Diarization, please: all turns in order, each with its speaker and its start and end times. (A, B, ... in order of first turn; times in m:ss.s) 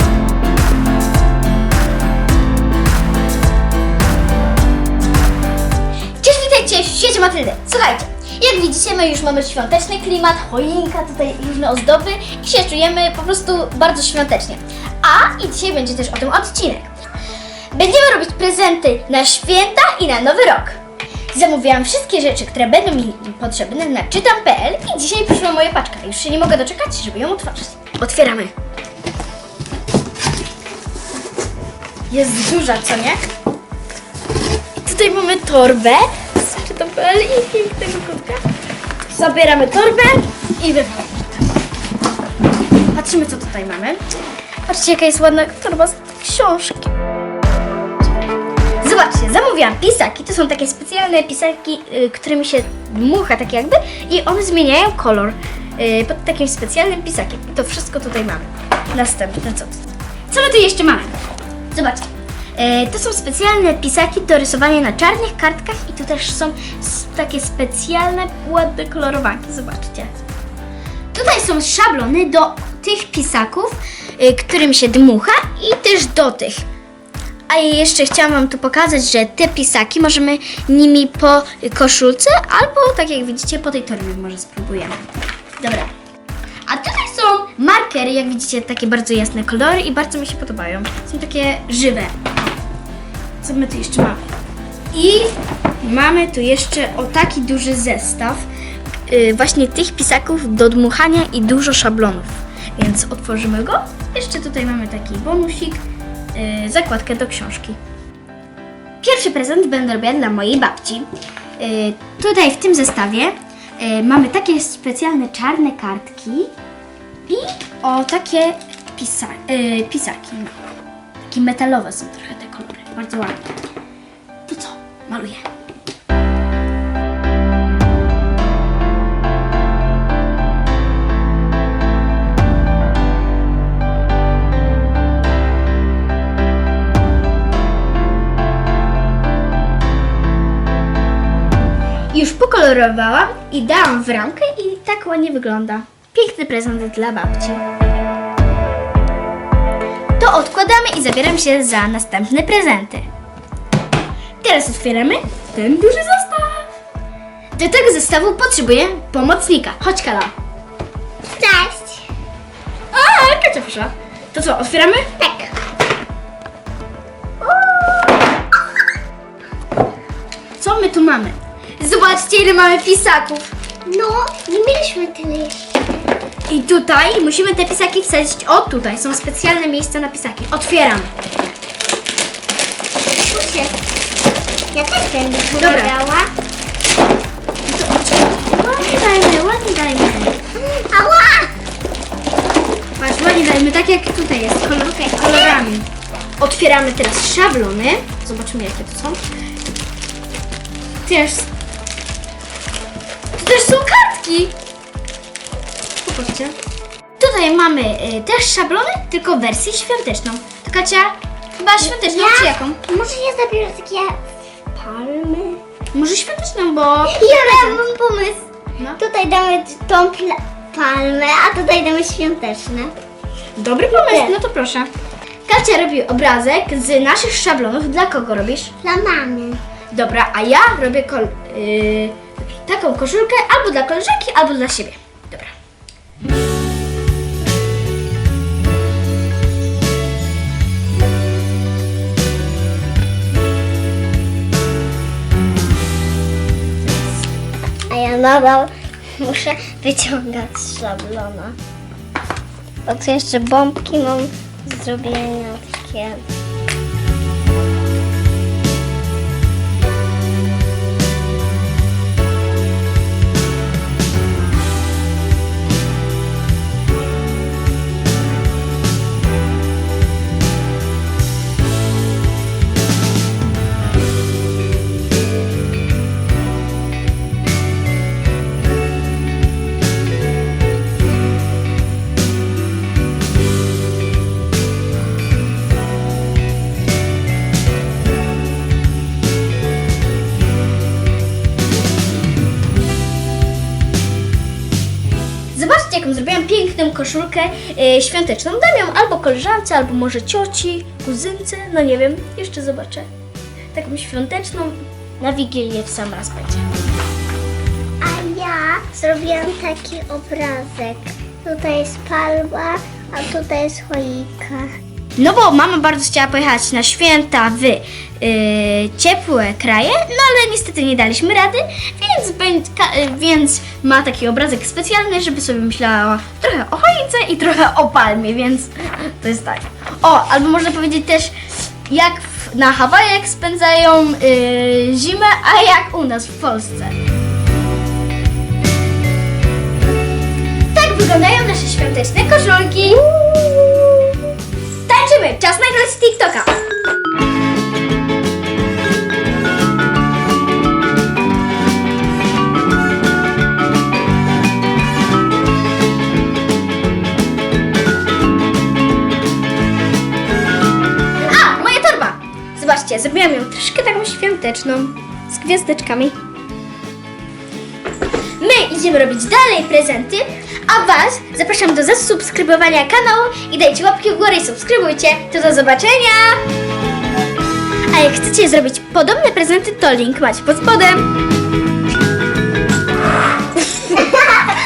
0:06.2-0:16.9 A
0:17.7-0:20.8 A
0:21.3-0:28.5 A
0:32.1-0:33.2 A
0:34.8-0:38.4 A
0:39.1-0:41.3 A
0:42.9-0:44.0 A
0:44.7-0:46.9 A
0:48.8-1:01.2 A
1:01.7-1:10.1 A
1:11.1-1:16.6 A
1:17.5-1:25.9 A
1:26.7-1:32.5 A
1:33.4-1:34.3 A
1:34.9-1:38.5 A
1:39.1-1:45.8 A
1:46.3-1:47.8 A
1:49.0-1:56.5 A
1:57.2-2:00.5 A
2:01.3-2:03.5 A
2:04.5-2:05.5 A
2:22.1-2:27.6 A
2:30.2-2:33.1 A
2:34.4-2:36.7 A
2:37.6-2:40.3 A
2:41.4-2:42.0 B
2:42.9-2:45.1 A
2:45.2-2:45.5 B
2:47.4-2:48.2 B
2:50.6-2:53.5 A
2:53.9-2:55.8 B
2:56.5-3:01.1 A
3:03.2-3:03.7 B
3:04.7-3:06.3 B
3:05.6-3:05.9 A
3:07.7-3:10.4 A
3:10.6-3:11.5 B
3:13.0-3:15.9 A
3:15.0-3:15.6 B
3:16.4-3:19.2 A
3:21.0-3:21.5 A
3:23.3-3:24.5 A
3:26.0-3:26.5 A
3:27.2-3:32.8 A
3:31.8-3:34.2 B
3:34.7-3:35.6 B
3:35.9-3:37.8 A
3:37.1-3:42.9 B
3:43.6-3:44.9 A
3:44.1-3:44.3 B
3:45.5-3:48.7 A
3:48.8-3:49.6 B
3:49.9-3:55.5 A
4:07.9-4:11.6 B
4:12.8-4:16.2 B
4:55.5-5:03.1 A
5:03.7-5:06.6 A
5:08.0-5:14.7 B
5:15.2-5:36.9 A
5:40.7-5:43.8 A
5:44.8-5:46.5 A
6:01.2-6:06.2 A
6:08.4-6:16.4 A
6:17.9-6:21.0 A
6:23.7-6:24.2 A